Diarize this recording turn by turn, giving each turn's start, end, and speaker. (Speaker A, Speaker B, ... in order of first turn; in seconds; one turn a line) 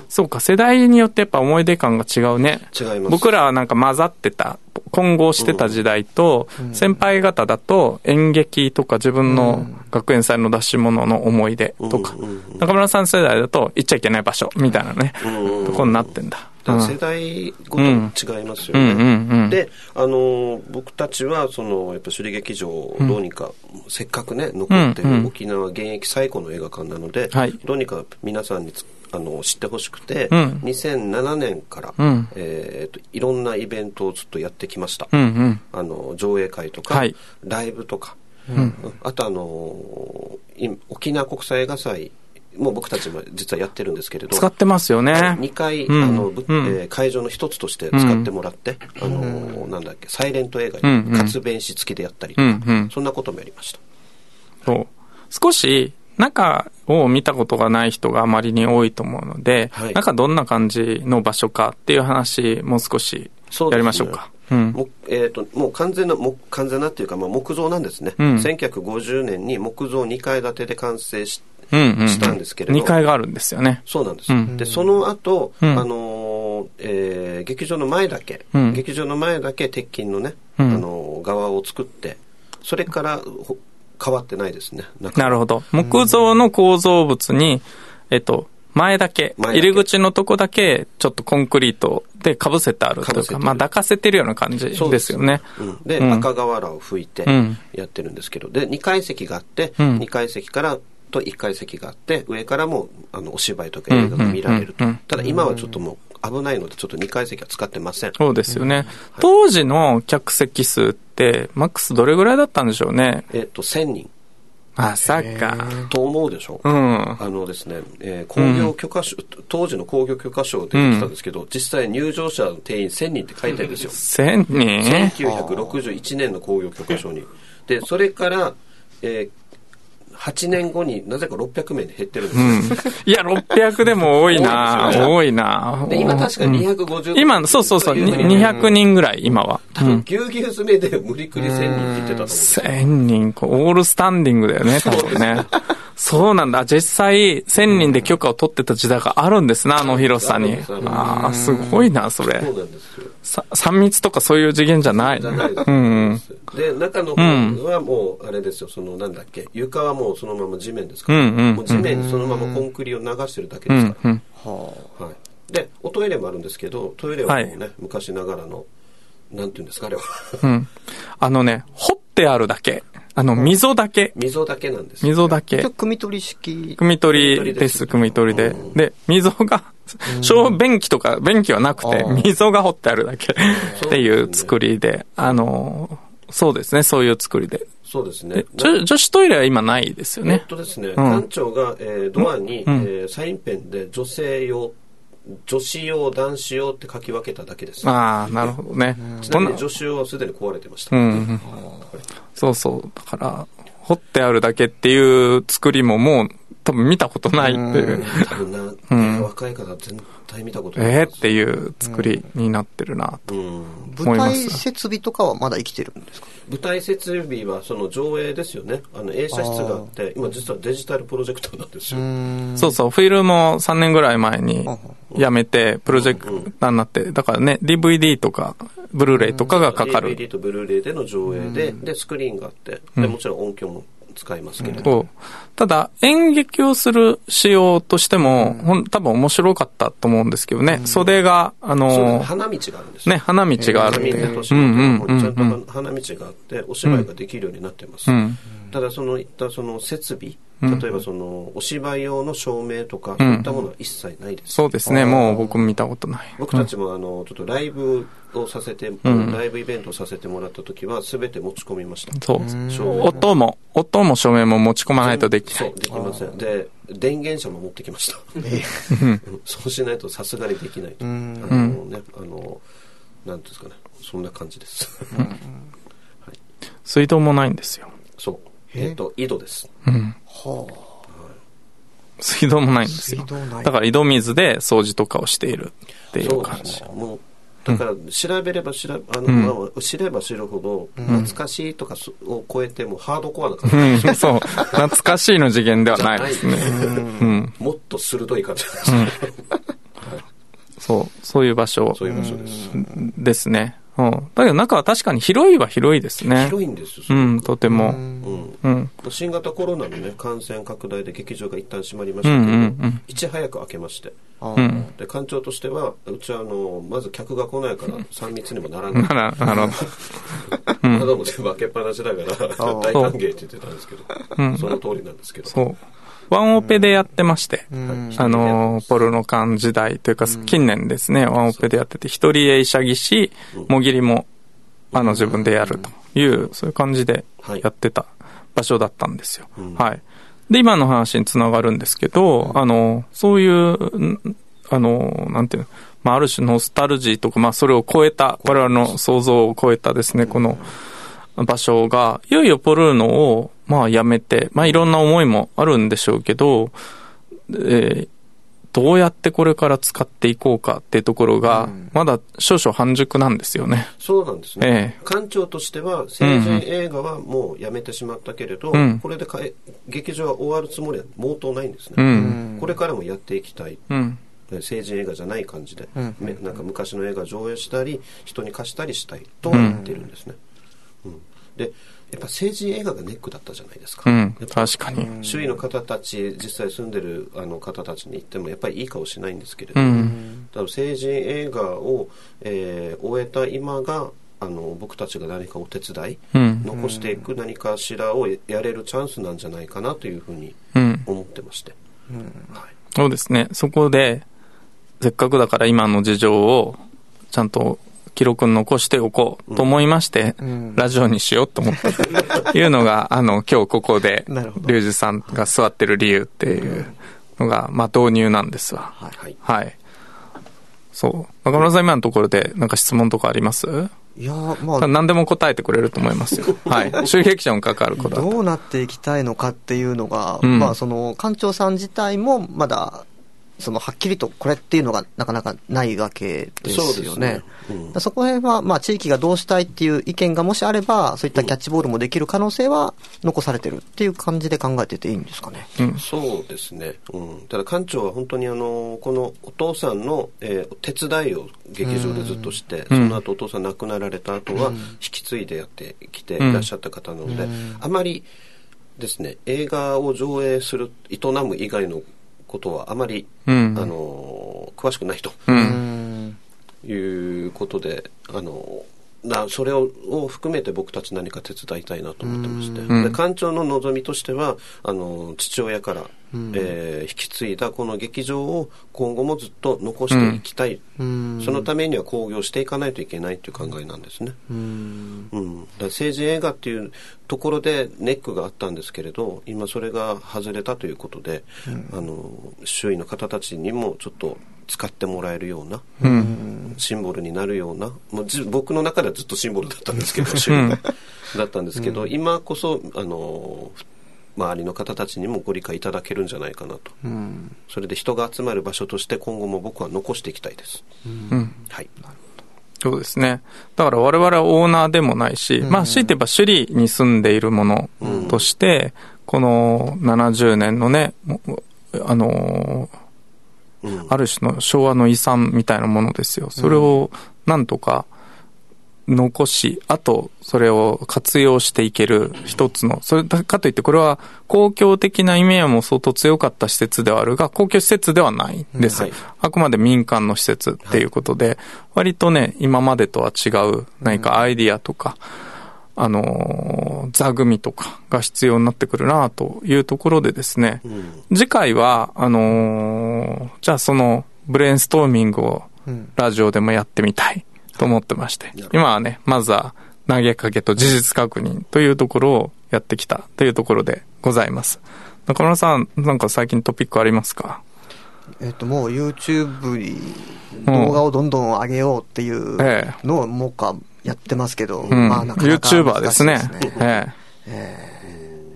Speaker A: 0.1-16.9
Speaker B: 2.7-3.3
Speaker B: 5.4-5.8
Speaker C: 9.3-9.7
Speaker B: 11.8-12.7
Speaker B: 15.2-16.1
Speaker B: 16.7-35.1
Speaker A: 17.8-18.1
Speaker A: 18.7-19.6
Speaker A: 24.7-25.3
Speaker A: 30.3-30.6
Speaker A: 32.0-32.3
Speaker A: 35.1-35.6
Speaker B: 35.7-44.5
Speaker C: 38.5-38.8
Speaker A: 44.3-46.8
Speaker B: 45.1-53.8
Speaker A: 47.9-48.3
Speaker C: 49.0-49.5
Speaker A: 50.8-51.4
Speaker A: 52.4-52.9
Speaker A: 54.7-64.8
Speaker B: 59.7-60.0
Speaker B: 63.5-64.2
Speaker B: 64.7-73.0
Speaker A: 68.2-68.5
Speaker A: 71.7-74.6
Speaker B: 73.9-85.4
Speaker A: 78.5-78.8
Speaker A: 80.6-80.8
Speaker A: 85.2-95.5
Speaker B: 89.4-89.9
Speaker B: 93.0-93.6
Speaker B: 94.7-108.2
Speaker A: 96.0-96.3
Speaker A: 97.3-97.6
Speaker A: 103.9-105.0
Speaker C: 105.2-105.6
Speaker A: 108.2-113.3
Speaker B: 113.3-114.1
Speaker A: 114.8-115.9
Speaker C: 115.1-115.9
Speaker B: 115.9-116.7
Speaker A: 116.6-117.2
Speaker B: 117.2-124.0
Speaker A: 118.4-118.7
Speaker A: 120.7-121.1
Speaker A: 123.9-125.2
Speaker B: 124.8-129.3
Speaker C: 125.2-125.8
Speaker B: 130.1-133.0
Speaker A: 132.3-140.1
Speaker B: 134.3-135.2
Speaker B: 135.9-138.9
Speaker B: 139.7-142.9
Speaker C: 141.4-141.9
Speaker A: 142.3-152.5
Speaker B: 144.7-145.6
Speaker B: 149.8-153.1
Speaker C: 150.9-151.8
Speaker A: 153.2-156.4
Speaker B: 154.8-164.0
Speaker A: 157.2-157.6
Speaker A: 161.1-162.0
Speaker C: 161.7-162.7
Speaker A: 163.7-164.2
Speaker C: 164.4-164.9
Speaker B: 165.0-168.7
Speaker A: 167.3-167.5
Speaker B: 169.3-170.5
Speaker A: 170.4-174.2
Speaker B: 174.2-175.3
Speaker A: 175.0-175.7
Speaker C: 175.5-176.8
Speaker A: 176.8-187.7
Speaker B: 177.1-178.8
Speaker C: 180.1-180.6
Speaker C: 181.8-182.3
Speaker C: 183.5-183.8
Speaker B: 183.6-184.6
Speaker B: 187.8-188.8
Speaker A: 188.4-190.4
Speaker B: 190.2-194.8
Speaker A: 191.0-191.2
Speaker A: 192.2-192.9
Speaker B: 195.3-198.5
Speaker A: 197.8-199.6
Speaker B: 199.2-202.0
Speaker A: 200.9-201.5
Speaker A: 202.4-209.3
Speaker C: 207.4-208.2
Speaker B: 207.7-211.3
Speaker A: 210.8-213.3
Speaker C: 211.8-212.2
Speaker B: 213.3-213.9
Speaker C: 213.9-216.3
Speaker A: 214.0-214.6
Speaker B: 216.5-222.1
Speaker C: 219.3-219.9
Speaker C: 221.9-222.8
Speaker A: 222.6-230.2
Speaker B: 225.9-226.5
Speaker B: 229.5-235.0
Speaker C: 234.6-234.9
Speaker A: 234.7-242.3
Speaker C: 238.2-238.7
Speaker C: 240.8-241.1
Speaker B: 241.9-254.7
Speaker A: 243.1-245.6
Speaker C: 243.6-244.4
Speaker A: 248.1-248.4
Speaker A: 250.6-250.9
Speaker A: 253.2-253.6
Speaker A: 254.5-256.7
Speaker C: 254.8-255.6
Speaker B: 256.4-263.3
Speaker A: 259.0-259.4
Speaker A: 262.2-265.7
Speaker C: 262.4-263.3
Speaker B: 265.0-272.6
Speaker C: 265.9-266.2
Speaker C: 268.4-268.9
Speaker A: 268.9-269.2
Speaker C: 271.0-271.6
Speaker A: 271.5-271.8
Speaker B: 273.2-275.3
Speaker C: 275.1-275.6
Speaker A: 276.9-277.9
Speaker B: 278.2-279.7
Speaker A: 279.9-280.2
Speaker C: 280.3-281.0
Speaker A: 282.2-286.8
Speaker C: 282.9-283.7
Speaker B: 286.1-294.9
Speaker A: 289.3-289.5
Speaker C: 291.0-291.3
Speaker A: 293.7-297.5
Speaker B: 295.9-299.4
Speaker C: 296.6-297.3
Speaker A: 300.8-306.5
Speaker B: 301.9-302.8
Speaker C: 302.1-303.1
Speaker B: 306.3-307.5
Speaker A: 307.1-308.0
Speaker C: 307.7-308.4
Speaker B: 308.2-314.2
Speaker A: 308.6-308.9
Speaker A: 312.2-313.0
Speaker C: 314.4-314.9
Speaker A: 314.6-314.9
Speaker B: 314.9-325.6
Speaker A: 318.9-319.9
Speaker C: 319.4-319.8
Speaker A: 320.8-321.1
Speaker C: 322.6-322.9
Speaker A: 324.4-324.8
Speaker A: 325.5-325.8
Speaker A: 326.3-334.3
Speaker C: 327.7-328.2
Speaker B: 327.9-329.0
Speaker A: 334.9-350.7
Speaker B: 334.9-335.2
Speaker C: 335.2-335.8
Speaker B: 339.6-339.9
Speaker B: 348.4-348.9
Speaker A: 351.4-356.7
Speaker A: 357.5-358.1
Speaker A: 358.7-363.9
Speaker C: 361.5-361.9
Speaker B: 364.0-373.9
Speaker A: 364.6-365.0
Speaker A: 366.2-366.6
Speaker A: 368.7-369.0
Speaker A: 372.0-372.4
Speaker C: 372.1-372.7
Speaker A: 373.9-374.2
Speaker B: 374.5-380.4
Speaker C: 379.5-379.9
Speaker A: 379.5-379.8
Speaker B: 381.0-401.8
Speaker A: 384.1-385.1
Speaker C: 385.0-385.5
Speaker A: 389.8-390.2
Speaker C: 389.9-390.4
Speaker A: 396.3-396.7
Speaker C: 396.8-397.2
Speaker A: 400.7-401.1
Speaker C: 402.1-402.5
Speaker A: 402.9-404.2
Speaker A: 405.0-406.8
Speaker A: 407.3-419.7
Speaker C: 410.5-410.8
Speaker C: 411.8-412.5
Speaker C: 414.3-414.8
Speaker C: 416.5-416.9
Speaker A: 420.9-423.9
Speaker C: 424.2-424.9
Speaker A: 424.8-428.4
Speaker C: 427.9-433.1
Speaker A: 430.4-430.8
Speaker C: 433.6-445.8
Speaker B: 436.6-438.0
Speaker B: 445.9-458.3
Speaker C: 451.8-452.5
Speaker A: 452.9-453.2
Speaker C: 454.6-454.9
Speaker A: 456.4-456.7
Speaker C: 457.3-457.8
Speaker B: 459.0-465.7
Speaker A: 463.5-463.9
Speaker A: 465.5-465.8
Speaker C: 465.5-466.4
Speaker B: 466.8-480.9
Speaker C: 472.2-472.9
Speaker A: 472.9-473.2
Speaker C: 476.3-476.7
Speaker A: 480.1-480.4
Speaker C: 481.0-481.7
Speaker B: 481.4-484.4
Speaker C: 484.5-485.3
Speaker B: 485.3-503.8
Speaker C: 491.7-491.9
Speaker C: 496.0-496.8
Speaker A: 496.0-496.4
Speaker A: 500.4-500.8
Speaker B: 504.4-507.0
Speaker C: 507.0-507.6
Speaker B: 507.7-510.9
Speaker C: 511.1-511.5
Speaker A: 512.8-522.9
Speaker C: 515.6-516.1
Speaker B: 518.0-518.4
Speaker B: 523.8-524.1
Speaker A: 524.1-528.1
Speaker C: 526.6-526.9
Speaker A: 529.1-545.2
Speaker C: 538.7-539.1
Speaker B: 538.9-539.2
Speaker C: 544.0-544.3
Speaker A: 546.0-567.6
Speaker B: 550.9-551.2
Speaker C: 568.4-578.2
Speaker A: 570.7-571.0
Speaker A: 572.6-573.0
Speaker B: 574.8-575.2
Speaker A: 574.9-577.1
Speaker B: 578.1-578.4